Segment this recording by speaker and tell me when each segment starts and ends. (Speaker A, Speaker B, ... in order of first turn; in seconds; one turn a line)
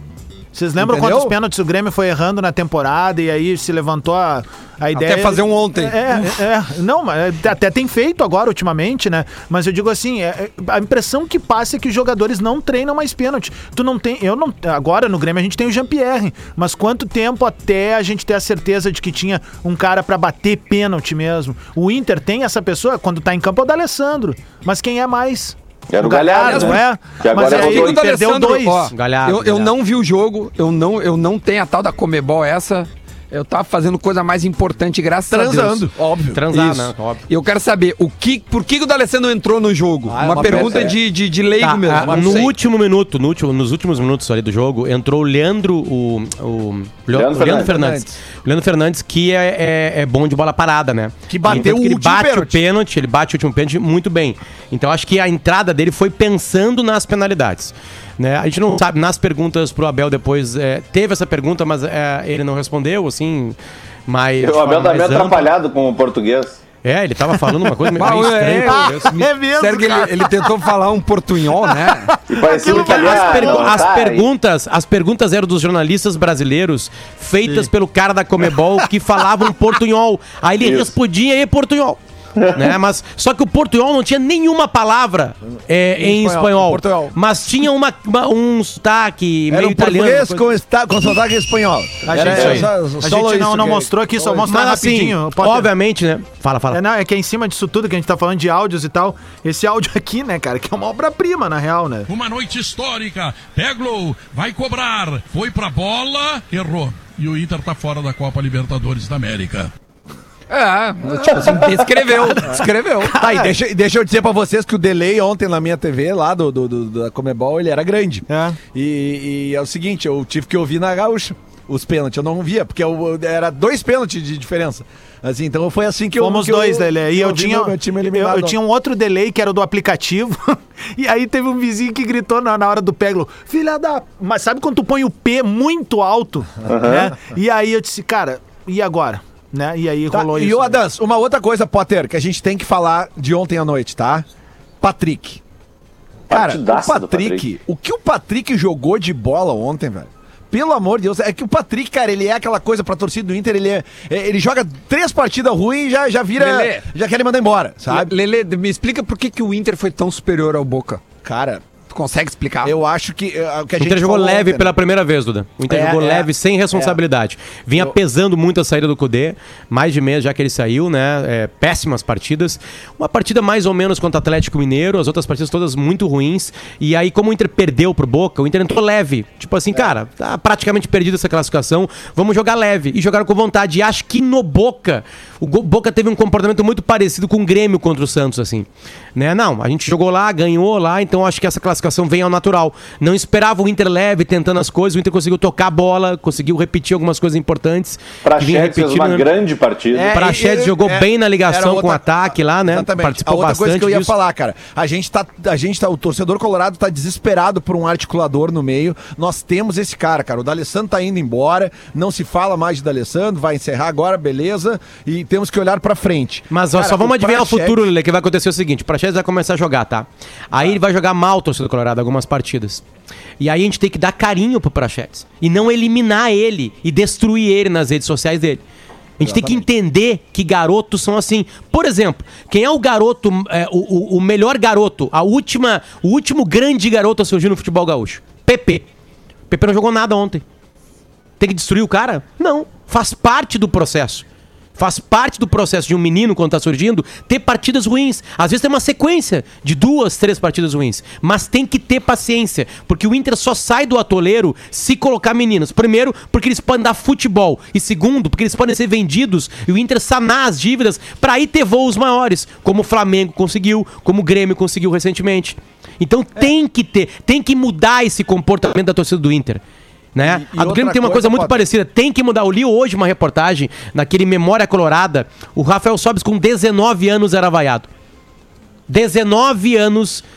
Speaker A: 0.5-28.9
Speaker B: 0.8-1.4
Speaker C: 5.0-6.3
Speaker D: 25.9-28.0
Speaker C: 26.4-26.8
Speaker C: 27.3-35.9
Speaker E: 28.9-29.7
Speaker B: 35.3-36.5
Speaker E: 36.3-37.2
Speaker C: 36.5-42.5
Speaker B: 40.1-41.0
Speaker D: 40.4-40.9
Speaker E: 41.6-63.6
Speaker B: 41.9-42.5
Speaker D: 47.1-47.8
Speaker B: 47.5-48.2
Speaker B: 51.3-52.6
Speaker E: 64.1-65.5
Speaker D: 64.4-66.6
Speaker E: 66.8-69.1
Speaker A: 67.9-70.6
Speaker C: 68.0-72.1
Speaker A: 71.6-73.9
Speaker D: 72.3-74.3
Speaker E: 72.7-82.0
Speaker D: 80.6-80.9
Speaker D: 82.4-82.7
Speaker E: 82.5-90.5
Speaker B: 86.0-87.2
Speaker B: 89.5-94.5
Speaker A: 92.0-95.7
Speaker E: 92.2-92.7
Speaker E: 94.5-96.8
Speaker A: 96.7-102.1
Speaker F: 102.1-109.7
Speaker C: 110.5-113.1
Speaker A: 112.3-113.5
Speaker B: 113.1-128.6
Speaker A: 118.3-118.6
Speaker A: 126.2-140.8
Speaker D: 136.7-137.1
Speaker B: 140.1-144.2
Speaker B: 144.8-145.4
Speaker D: 146.3-147.5
Speaker B: 146.3-158.1
Speaker C: 156.4-156.9
Speaker C: 157.9-161.0
Speaker B: 161.2-161.6
Speaker C: 161.9-162.8
Speaker B: 162.6-164.7
Speaker E: 163.8-199.3
Speaker B: 165.7-167.0
Speaker D: 198.2-200.2
Speaker B: 199.9-217.8
Speaker E: 200.1-204.1
Speaker E: 216.5-222.8
Speaker E: 223.4-228.6
Speaker E: 229.2-238.9
Speaker B: 229.2-229.6
Speaker E: 239.5-240.4
Speaker E: 241.4-244.2
Speaker E: 244.8-269.6
Speaker E: 270.1-277.9
Speaker B: 270.2-271.6
Speaker E: 278.9-280.2